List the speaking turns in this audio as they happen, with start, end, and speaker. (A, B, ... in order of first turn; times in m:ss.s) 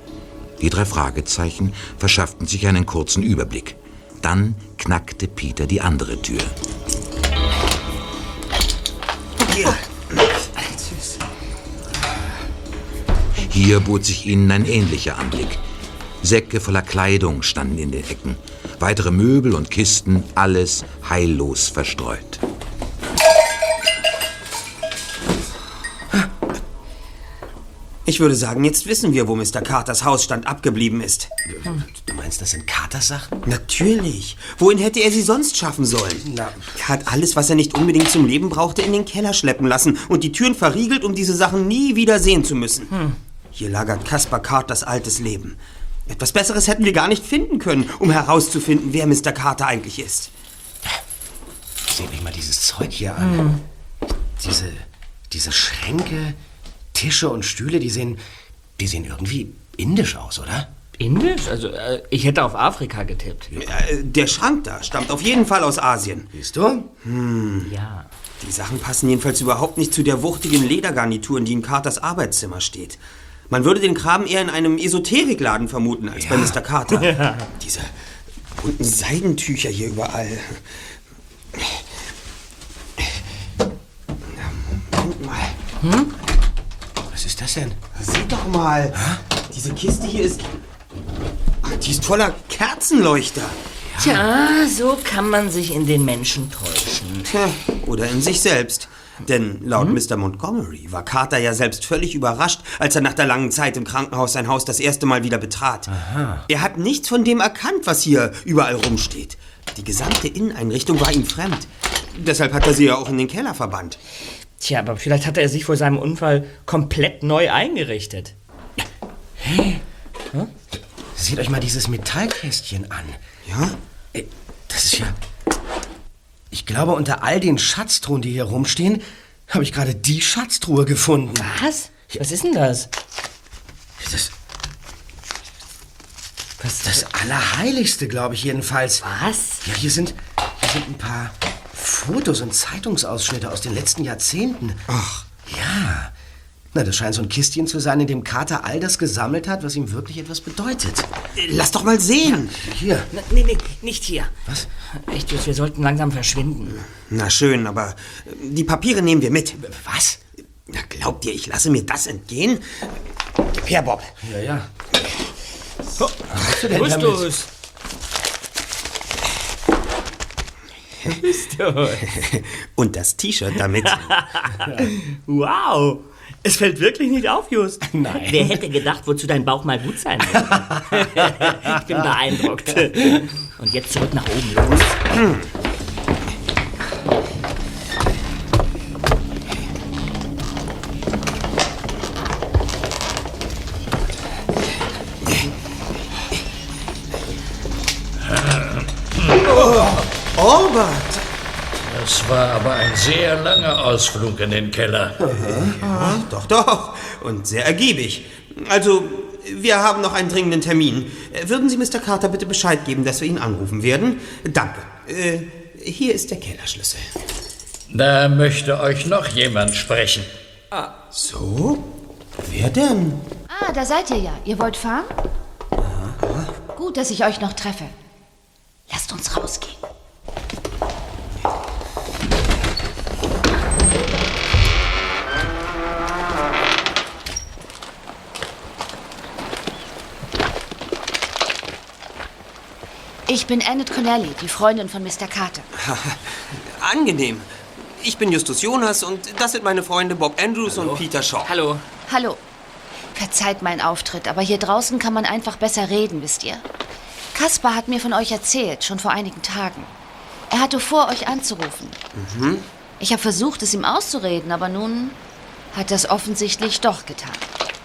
0:00.6-0:06.6 A
0:09.5-0:10.3 B
0:13.4-0:15.6 A
0:16.2-0:22.4 A
0:28.1-0:31.3 B
0:31.5-0:33.3 C
0:33.5-0:43.0 B
0:36.2-0:36.7 C
0:43.5-0:50.3 B
0:51.9-0:53.5 C
0:53.2-0:53.6 D
0:54.4-0:56.4 C
0:56.9-0:58.2 C
0:58.8-1:00.7 C
1:01.0-1:03.5 D
1:03.6-1:06.3 B
1:06.3-1:06.9 C
1:07.0-1:07.7 B
1:07.7-1:08.1 D
1:08.4-1:13.0 B
1:13.5-1:17.9 B
1:16.2-1:16.5 C
1:17.0-1:17.5 D
1:18.6-1:20.6 B
1:24.4-1:25.5 B
1:25.8-1:26.1 D
1:27.1-1:27.8 C
1:28.0-1:30.5 B
1:31.6-1:33.6 B
1:33.9-1:34.2 C
1:34.0-1:37.4 D
1:37.3-1:45.9 B
1:45.9-1:46.4 C
1:46.5-1:54.0 B
1:54.6-1:58.4 D
1:59.4-1:59.8 C
2:01.2-2:03.2 C
2:03.5-2:03.8 B
2:04.1-2:05.2 C
2:06.5-2:11.5 C
2:11.4-2:12.9 D
2:14.0-2:14.3 C
2:16.6-2:17.1 D
2:16.8-2:19.1 C
2:19.0-2:19.6 D
2:19.6-2:24.8 C
2:24.9-2:25.2 B
2:25.5-2:26.1 C
2:26.7-2:31.1 C
2:31.4-2:32.6 B
2:32.5-2:33.1 C
2:33.1-2:34.3 D
2:34.9-2:36.8 D
2:37.1-2:39.6 B
2:39.6-2:40.2 C
2:40.7-2:42.9 B
2:43.6-2:44.2 B
2:44.2-2:44.7 C
2:46.0-2:47.5 D
2:46.3-2:47.3 C
2:51.1-2:52.1 D
2:52.1-2:54.2 B
2:53.9-3:05.2 D
2:57.8-2:58.6 C
3:00.4-3:02.4 C
3:18.2-3:19.1 E
3:19.5-3:21.2 B
3:21.8-3:25.2 E
3:25.2-3:25.8 C
3:25.4-3:37.1 B
3:25.8-3:26.2 D
3:37.9-3:40.3 E
3:41.1-3:41.8 B
3:42.4-3:43.2 B
3:43.5-3:45.1 F
3:45.8-3:46.2 C
3:46.7-3:47.9 F
3:48.9-3:49.8 F
4:03.3-4:05.7 F
4:05.8-4:11.5 B
4:10.7-4:11.8 D
4:12.1-4:12.4 F
4:13.2-4:16.6 F
4:17.3-4:19.9 F
4:20.5-4:22.0 F
4:22.2-4:22.6 B
4:23.0-4:25.2 F
4:25.7-4:27.5 F